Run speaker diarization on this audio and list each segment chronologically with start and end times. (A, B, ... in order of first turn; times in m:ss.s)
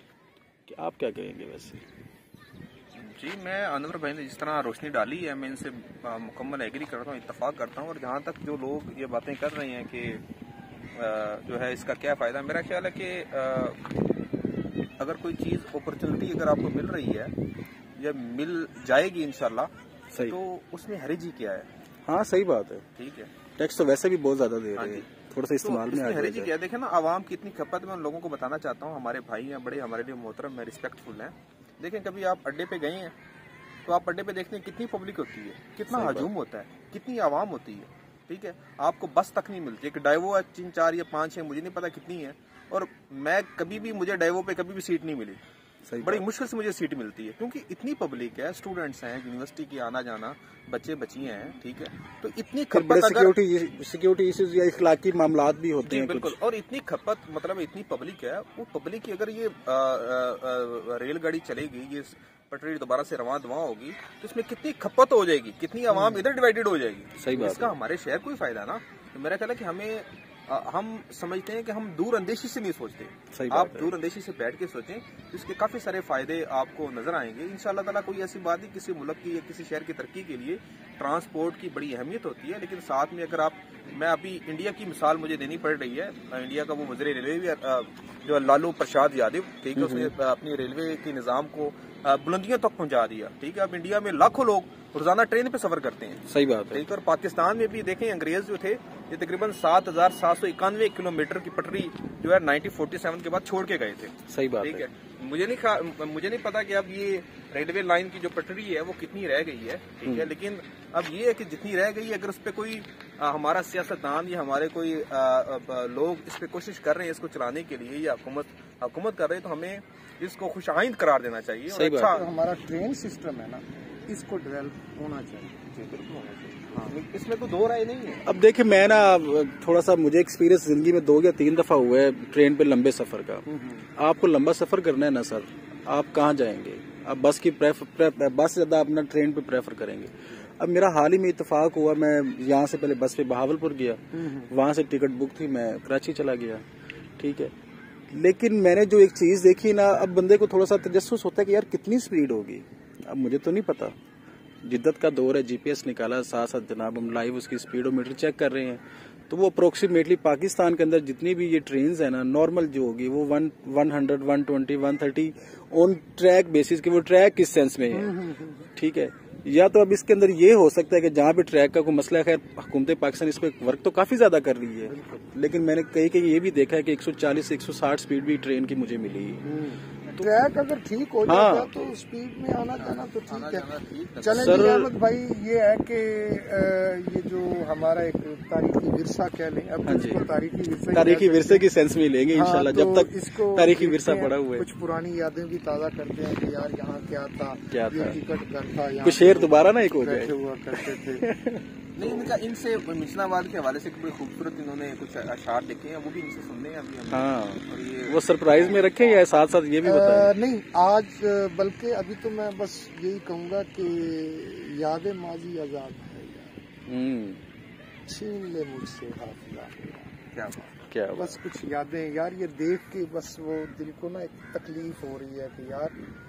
0:00.7-0:01.8 A
0:03.0-0:10.2 B
0:10.9-0:13.8 B
0:15.0-0:17.3 B
0:18.0-0:21.7 B
0:22.1-0:22.8 A
0:23.0-0:23.3 B
0:23.6-0:26.5 A
0:24.8-0:25.1 B
0:25.6-0:33.1 B
0:33.9-0:45.4 B
0:35.9-0:36.3 A
0:45.9-0:46.2 A
0:46.0-0:53.4 B
0:52.7-0:56.4 A
0:55.8-2:02.2 B
1:07.2-1:07.8 A
1:13.3-1:13.9 A
1:29.8-1:30.1 A
1:36.3-1:36.8 A
1:44.3-1:44.9 A
1:50.1-1:50.3 A
2:01.7-2:02.2 A
2:02.1-2:05.6 C
2:05.7-2:08.2 B
2:06.7-2:07.0 C
2:08.2-2:26.6 A
2:13.5-2:13.9 C
2:24.1-2:24.5 C
2:27.2-2:27.5 A
2:28.1-2:34.0 A
2:34.6-2:48.1 A
2:47.9-2:48.7 C
2:48.7-2:59.4 A
2:54.9-2:55.3 C
2:59.4-3:03.7 C
3:01.3-3:01.7 A
3:02.8-3:04.7 B
3:04.2-3:11.7 C
3:04.4-3:04.9 A
3:09.9-3:10.2 A
3:10.9-3:14.6 A
3:12.3-3:21.3 C
3:17.7-3:18.2 A
3:19.0-3:21.6 A
3:22.0-3:29.2 B
3:27.1-3:30.3 A
3:29.8-3:36.5 C
3:36.9-3:37.4 A
3:38.1-3:40.6 C
3:40.4-3:40.7 B
3:40.9-3:41.4 A
3:41.1-3:46.0 C